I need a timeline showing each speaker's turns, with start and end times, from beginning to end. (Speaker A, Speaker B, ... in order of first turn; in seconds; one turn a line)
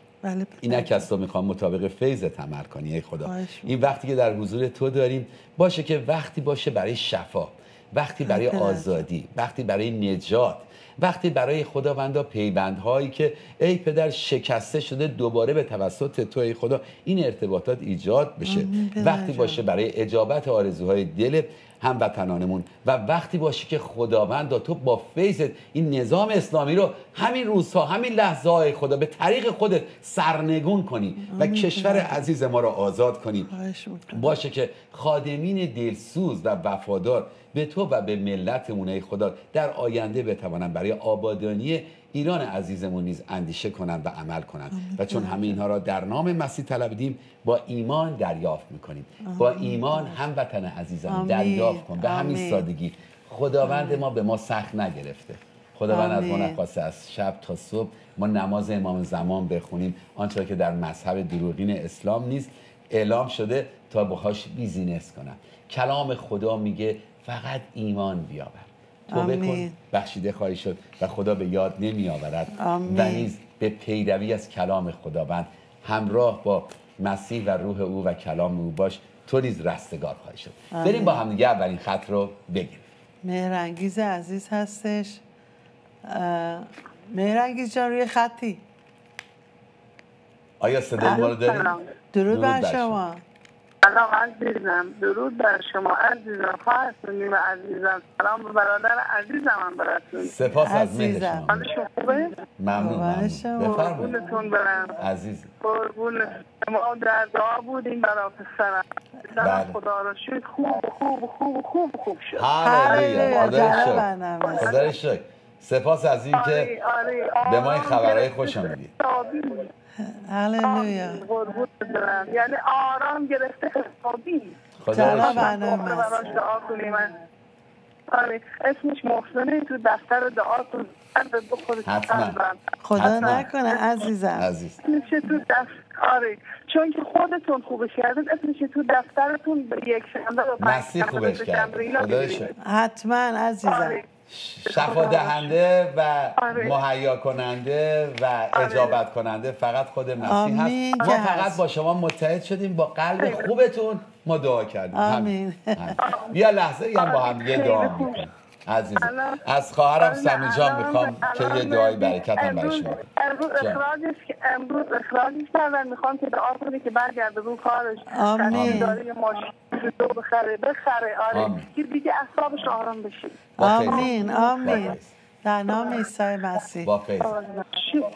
Speaker A: 0.2-1.1
Speaker B: 0.6-33.5
Speaker A: 3.2-3.7
Speaker A: 8.2-9.0
Speaker A: 18.4-19.6
Speaker A: 31.3-32.3
Speaker A: 33.5-34.4
Speaker B: 34.1-82.9
Speaker A: 44.7-45.6
Speaker A: 49.2-50.2
Speaker A: 51.1-52.7
Speaker A: 53.6-54.0
Speaker A: 55.9-56.6
Speaker A: 69.1-69.8
Speaker A: 72.6-73.3
Speaker A: 80.7-81.2
Speaker A: 83.2-85.2
Speaker A: 86.1-88.6
Speaker B: 90.6-91.8
Speaker A: 91.0-91.4
Speaker A: 92.1-93.2
Speaker B: 92.3-93.0
Speaker C: 93.8-100.4
Speaker B: 100.2-101.7
Speaker A: 100.6-101.5
Speaker C: 101.5-102.3
Speaker B: 102.6-104.2
Speaker A: 102.7-104.0
Speaker C: 103.8-105.0
Speaker B: 105.0-105.5
Speaker C: 105.6-112.3
Speaker B: 109.4-109.8
Speaker B: 112.4-114.1
Speaker A: 112.6-114.8
Speaker B: 114.6-116.7
Speaker C: 116.3-118.4
Speaker B: 117.5-118.9
Speaker C: 119.0-119.5
Speaker A: 120.0-121.3
Speaker C: 120.7-124.5
Speaker B: 124.8-125.5
Speaker A: 124.9-126.2
Speaker C: 125.2-127.1
Speaker C: 128.1-132.6
Speaker B: 131.8-132.4
Speaker A: 132.8-134.5
Speaker B: 132.9-133.5
Speaker B: 134.3-134.8
Speaker C: 134.9-142.5
Speaker B: 140.6-142.5
Speaker A: 142.6-144.0
Speaker B: 144.3-163.0
Speaker C: 144.8-145.3
Speaker A: 150.2-151.6
Speaker A: 154.9-156.0
Speaker C: 157.1-158.1
Speaker C: 160.1-173.3
Speaker B: 163.6-163.8
Speaker A: 168.1-169.0
Speaker B: 168.5-169.0
Speaker B: 171.3-171.7
Speaker B: 173.6-175.1
Speaker A: 173.6-176.9
Speaker B: 176.8-177.3
Speaker C: 177.7-178.0